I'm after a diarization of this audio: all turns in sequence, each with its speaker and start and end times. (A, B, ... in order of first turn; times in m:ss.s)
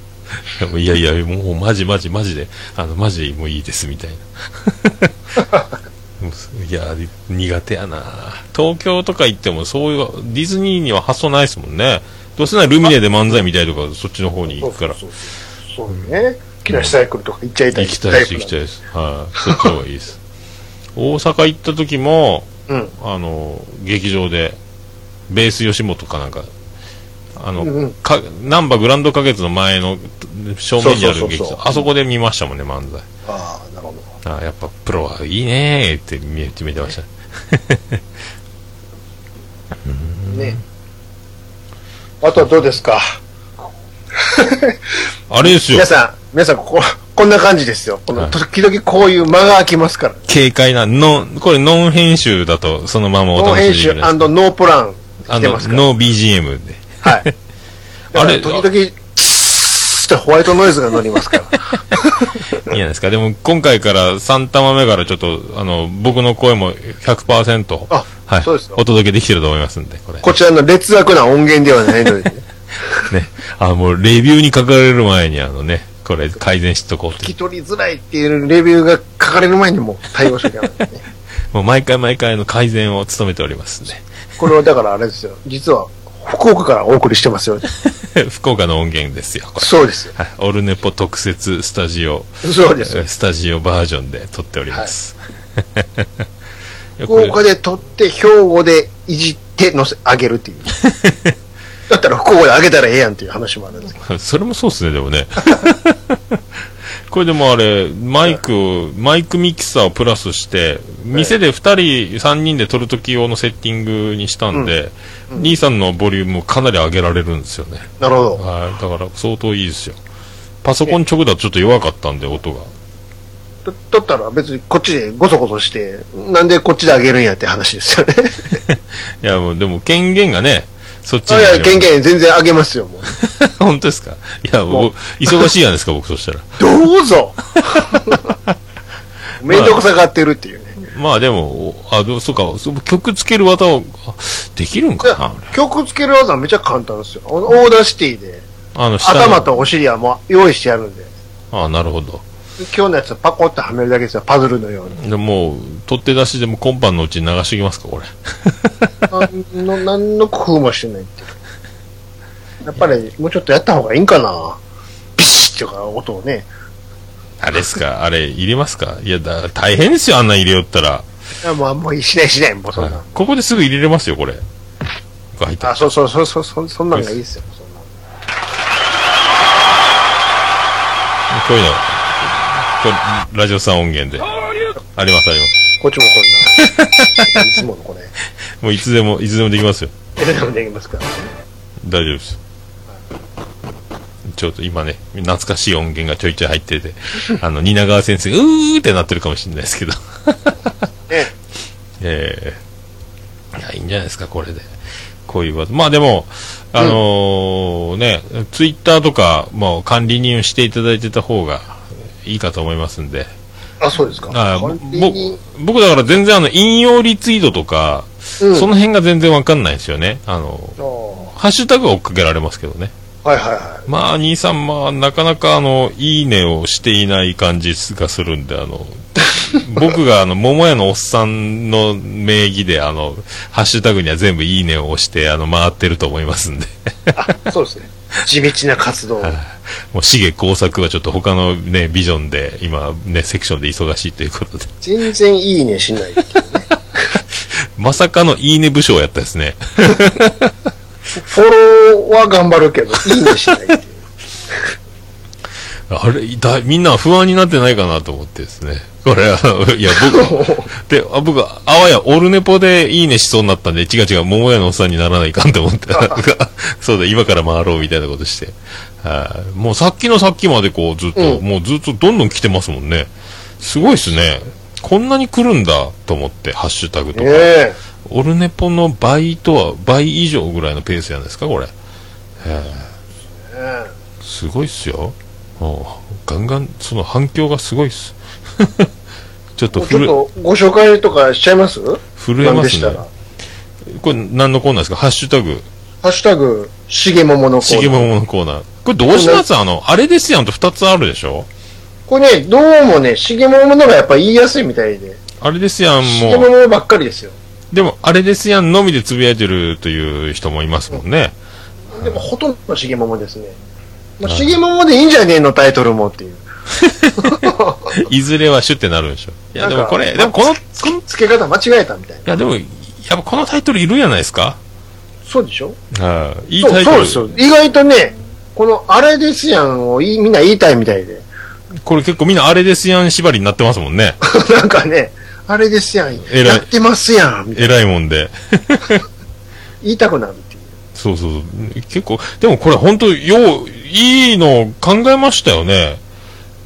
0:00.4-0:05.4 A
0:06.2-0:15.0 A
0:14.5-0:18.5 B
0:16.7-0:17.0 A
0:17.7-0:20.2 A
0:19.4-0:19.7 B
0:21.0-0:24.6 A
0:22.7-0:22.9 B
0:25.3-0:26.5 A
0:27.4-0:33.1 A
0:27.6-0:28.0 B
0:30.8-0:31.8 B
0:33.3-0:34.1 B
0:34.2-0:38.2 A
0:39.8-0:40.6 A
0:40.3-0:40.6 B
0:42.2-0:43.2 B
0:44.2-0:44.8 B
0:45.3-0:45.9 A
0:45.4-0:50.3 B
0:50.3-0:54.3 A
0:53.4-0:55.9 B
0:55.3-0:57.4 A
0:58.1-0:58.7 A
0:58.1-1:02.8 B
1:02.0-1:10.3 A
1:07.9-1:08.8 B
1:10.2-1:12.4 B
1:13.0-1:17.3 A
1:17.2-1:21.0 B
1:21.5-1:24.1 A
1:24.4-1:27.7 B
1:27.8-1:36.1 A
1:29.6-1:30.1 B
1:32.4-1:33.0 B
1:37.0-1:37.4 A
1:37.1-1:40.8 B
1:40.8-1:41.3 A
1:41.9-1:44.0 B
1:44.0-1:46.4 A
1:47.1-2:00.0 A
1:58.0-1:58.4 B
2:00.6-2:02.7 A
2:03.7-2:08.6 B
2:08.6-2:11.9 A
2:11.3-2:13.1 B
2:13.1-2:16.6 A
2:14.7-2:15.5 B
2:16.6-2:18.4 B
2:17.6-2:18.5 A
2:19.4-2:20.8 B
2:19.4-2:19.8 A
2:20.8-2:25.6 A
2:25.0-2:28.4 B
2:28.8-2:29.4 A
2:29.0-2:31.1 B
2:31.5-2:32.2 A
2:32.6-2:35.0 B
2:35.0-2:39.2 A
2:39.1-2:41.4 B
2:42.6-2:44.6 B
2:45.2-2:46.5 B
2:47.4-2:51.0 A
2:51.4-2:53.2 B
2:52.8-2:54.4 A
2:55.4-2:55.8 A
2:55.6-2:57.8 B
3:01.3-3:04.3 A
3:05.0-3:05.6 A
3:05.8-3:06.6 B
3:06.6-3:07.4 A
3:07.2-3:08.1 B
3:08.6-3:09.9 A
3:10.2-3:11.3 B
3:11.8-3:12.4 A
3:14.3-3:20.8 A
3:22.0-3:22.6 A
3:23.5-3:24.7 A
3:25.3-3:33.3 A
3:33.8-3:35.4 B
3:34.3-3:40.8 A
3:38.4-3:38.7 B
3:40.8-3:41.3 B
3:41.3-3:42.9 A
3:43.2-3:43.9 B
3:43.9-3:57.3 A
3:57.2-3:59.4 B
3:59.2-4:04.7 A
4:04.8-4:06.7 B
4:07.2-4:10.6 A
4:11.2-4:14.0 B
4:15.9-4:37.5 A
4:19.9-4:20.7 B
4:25.9-4:26.2 B
4:31.2-4:31.4 B
4:37.2-4:37.8 B
4:38.0-4:41.7 A
4:42.4-4:42.9 A
4:43.5-4:43.9 B
4:44.2-4:48.9 A
4:49.6-4:50.2 A
4:49.8-4:53.1 B
4:52.2-4:53.0 A
4:53.8-4:55.7 A
4:56.0-4:58.1 B
4:57.6-5:01.5 A
4:59.1-4:59.4 B
5:02.1-5:05.2 B
5:05.4-5:06.5 A
5:06.0-5:07.4 B
5:07.7-5:11.4 A
5:11.9-5:13.6 B
5:14.2-5:16.4 B
5:14.3-5:14.6 A
5:16.7-5:21.0 A
5:17.2-5:18.0 B
5:19.6-5:22.4 B
5:22.3-5:24.6 A
5:25.3-5:25.8 B
5:25.9-5:27.2 A
5:26.6-5:31.3 B
5:31.8-5:34.2 A
5:34.2-5:37.8 B
5:36.3-5:36.7 A
5:37.6-5:39.0 A
5:39.8-5:40.6 B
5:41.0-5:46.0 A